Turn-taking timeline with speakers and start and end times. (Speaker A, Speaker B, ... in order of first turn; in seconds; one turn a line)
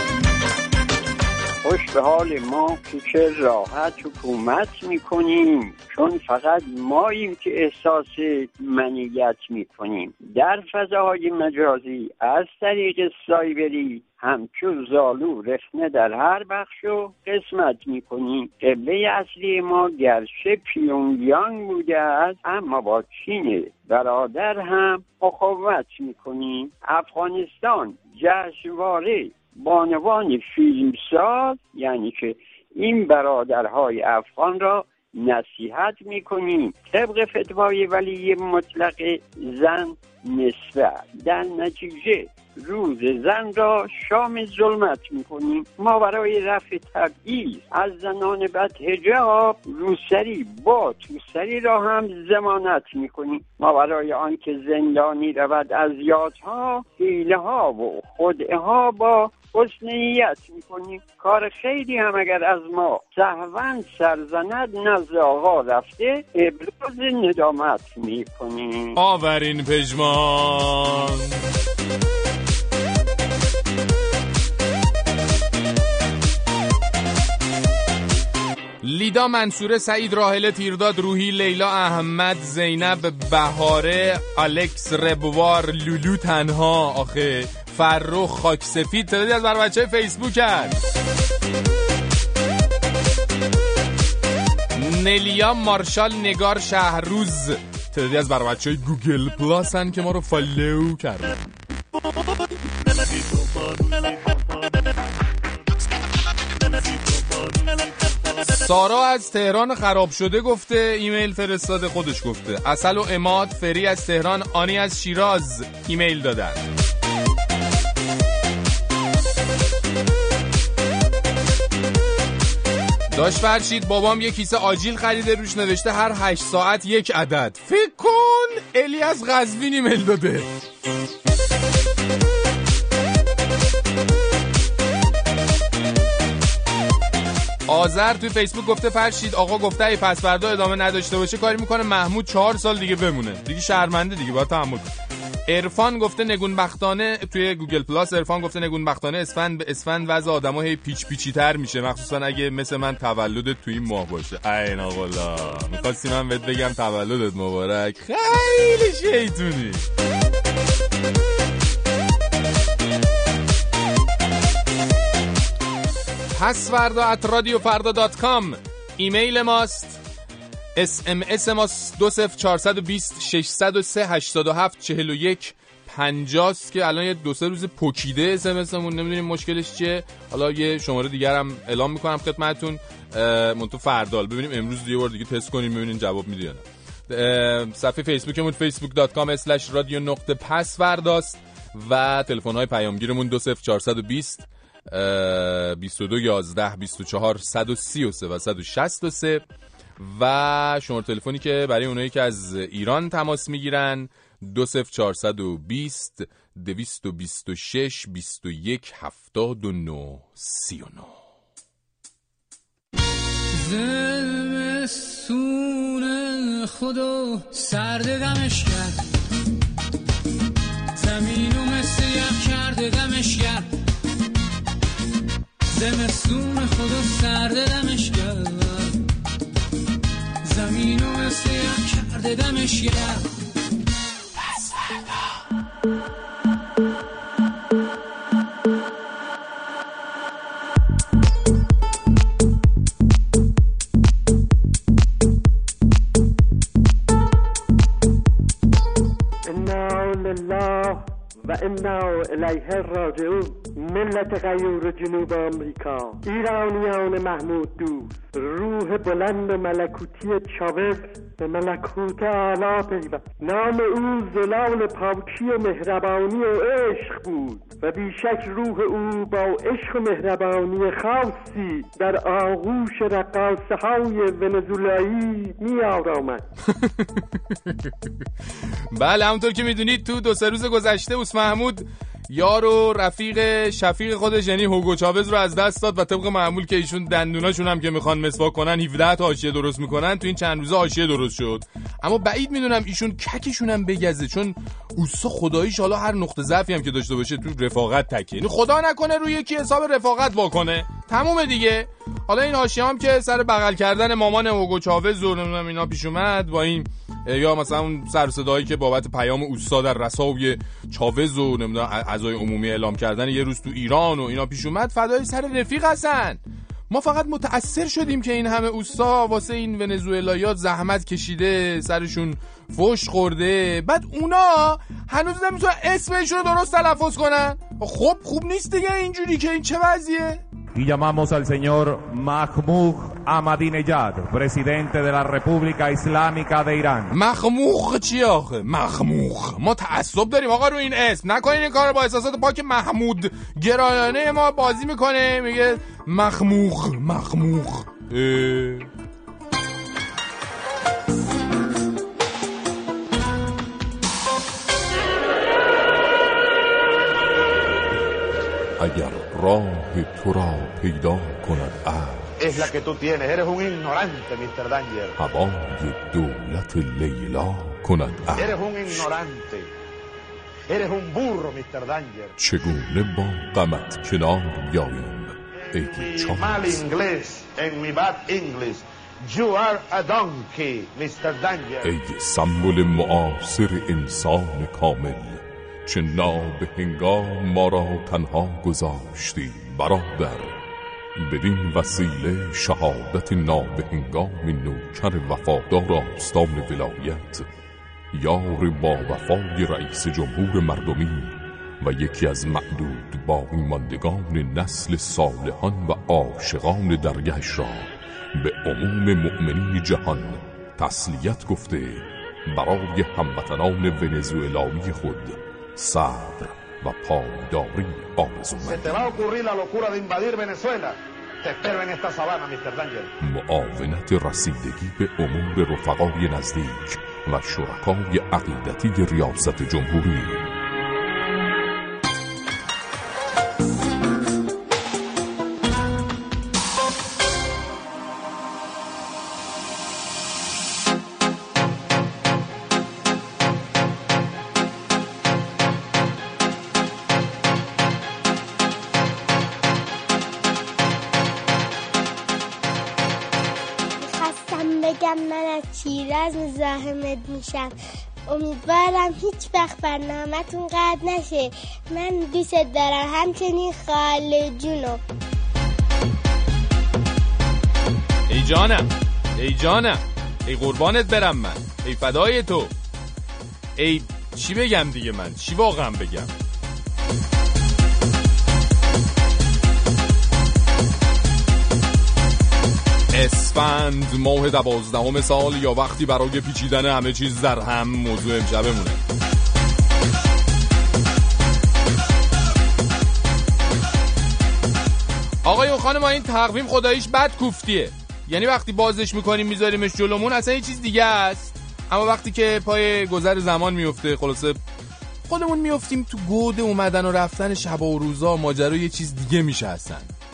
Speaker A: 1.6-69.0
Speaker B: 69.0-71.2
Speaker B: 78.8-90.8
Speaker B: 94.8-101.4
Speaker B: 108.5-116.6
Speaker B: 123.1-130.5
Speaker B: 137.7-144.9
Speaker B: 145.5-159.8
Speaker B: 166.3-170.0
Speaker B: 170.8-199.4
Speaker B: 200.0-211.2
Speaker C: 213.6-219.0
Speaker C: 221.0-223.7
Speaker C: 225.7-229.0
Speaker C: 230.4-233.3
Speaker B: 234.6-235.0
Speaker D: 249.5-276.4
Speaker B: 278.9-330.4
Speaker E: 330.8-337.1
Speaker B: 337.1-348.9
Speaker B: 358.8-362.0
Speaker F: 362.4-365.2
Speaker B: 365.4-368.4
Speaker F: 368.4-369.7
Speaker F: 370.7-372.4
Speaker G: 372.5-372.9
Speaker B: 372.5-375.2
Speaker G: 375.0-375.3
Speaker F: 375.9-381.9
Speaker B: 376.0-376.4
Speaker G: 376.1-376.7
Speaker B: 381.9-385.2
Speaker B: 385.9-390.4
Speaker G: 387.9-390.2
Speaker G: 391.4-397.4
Speaker B: 392.0-392.7
Speaker B: 393.4-396.4
Speaker B: 398.2-401.0
Speaker G: 398.4-401.1
Speaker B: 401.9-403.2
Speaker G: 401.9-407.9
Speaker G: 408.4-418.9
Speaker F: 418.6-423.1
Speaker G: 423.2-430.4
Speaker H: 454.0-457.7
Speaker H: 458.3-465.0
Speaker B: 468.3-472.7
Speaker B: 473.8-476.3
Speaker B: 483.1-489.0
Speaker B: 495.4-504.6
Speaker B: 505.3-510.1